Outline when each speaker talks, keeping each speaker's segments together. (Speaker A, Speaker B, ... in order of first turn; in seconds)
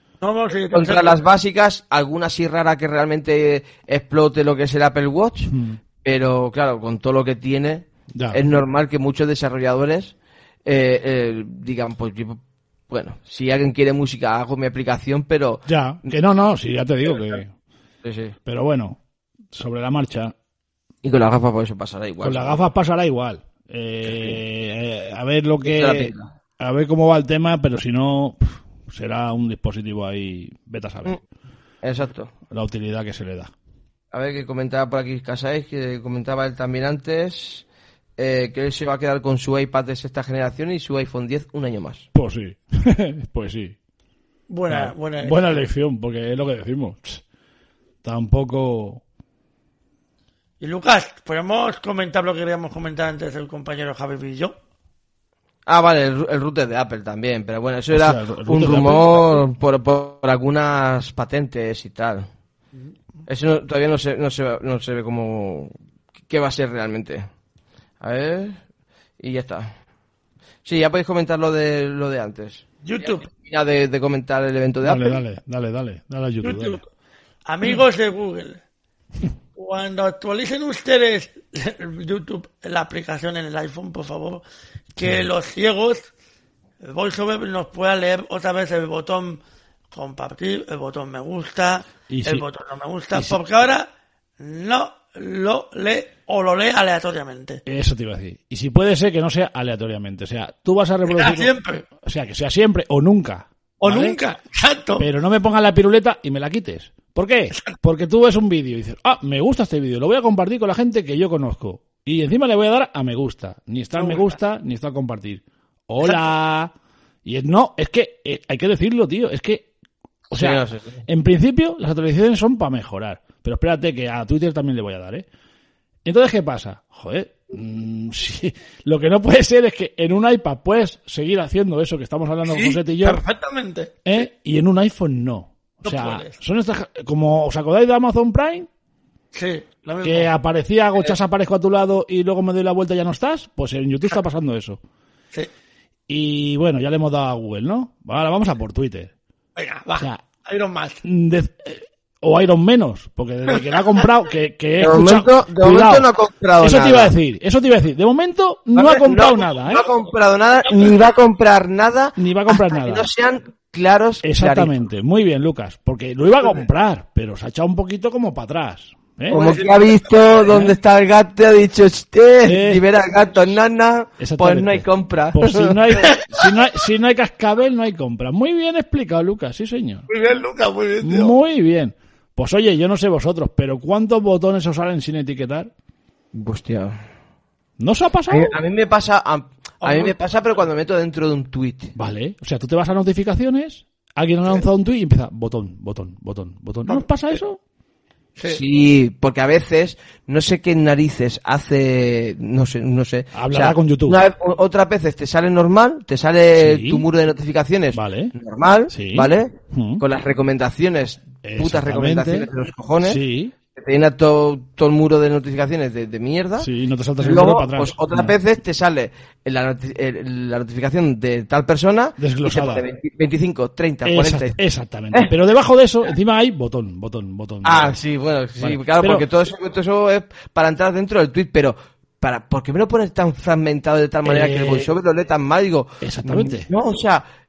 Speaker A: 0.2-1.2, 44.5-45.6, 50.6-54.5, 72.8-73.3, 76.4-76.8, 77.5-78.6, 79.6-84.4, 84.9-86.1, 86.8-89.4, 89.9-93.9, 94.4-97.6, 101.1-101.8, 103.8-105.1, 114.0-114.3, 132.5-133.9, 135.8-136.4, 139.3-140.3, 149.6-151.0, 153.6-153.8, 160.7-161.1, 169.3-170.0, 180.1-181.3, 189.8-190.2, 198.4-198.6
Speaker B: 0.7-5.5, 6.0-10.1, 10.7-16.1, 18.0-18.4, 21.0-22.6, 24.0-24.4, 25.6-26.3, 31.8-32.3, 34.1-37.6, 38.2-42.1, 55.7-62.3, 63.3-65.7, 66.3-67.3, 68.0-68.6, 69.2-69.7, 70.7-75.2, 120.3-121.0, 154.8-157.1, 158.8-164.7, 169.3-176.2, 186.3-187.0, 188.3-191.9, 198.4-213.2, 213.8-224.6, 227.6-237.2
Speaker C: 5.5-5.8, 8.1-8.4, 15.7-17.5, 18.5-19.0, 19.5-20.3, 22.2-31.2, 32.5-33.5, 42.1-43.8, 44.7-47.2, 48.0-49.0, 57.9-59.4, 74.8-76.8, 85.0-85.3, 92.1-92.5, 97.7-101.5, 102.0-104.2, 105.0-116.7, 117.2-119.7, 120.3-125.3, 126.0-133.2, 134.1-138.7, 140.0-144.8, 146.1-149.1, 150.0-150.2, 151.0-156.1, 156.6-159.9, 162.2-163.1, 164.2-169.4, 172.4-172.8, 174.2-180.1, 181.0-185.7, 187.8-188.6, 192.0-197.6, 203.3-204.2, 206.6-207.1, 207.9-208.3, 208.9-210.0, 211.4-212.5, 213.0-213.5, 216.6-218.3, 222.2-222.8, 224.1-228.0, 228.6-229.2, 234.2-234.9, 236.0-236.7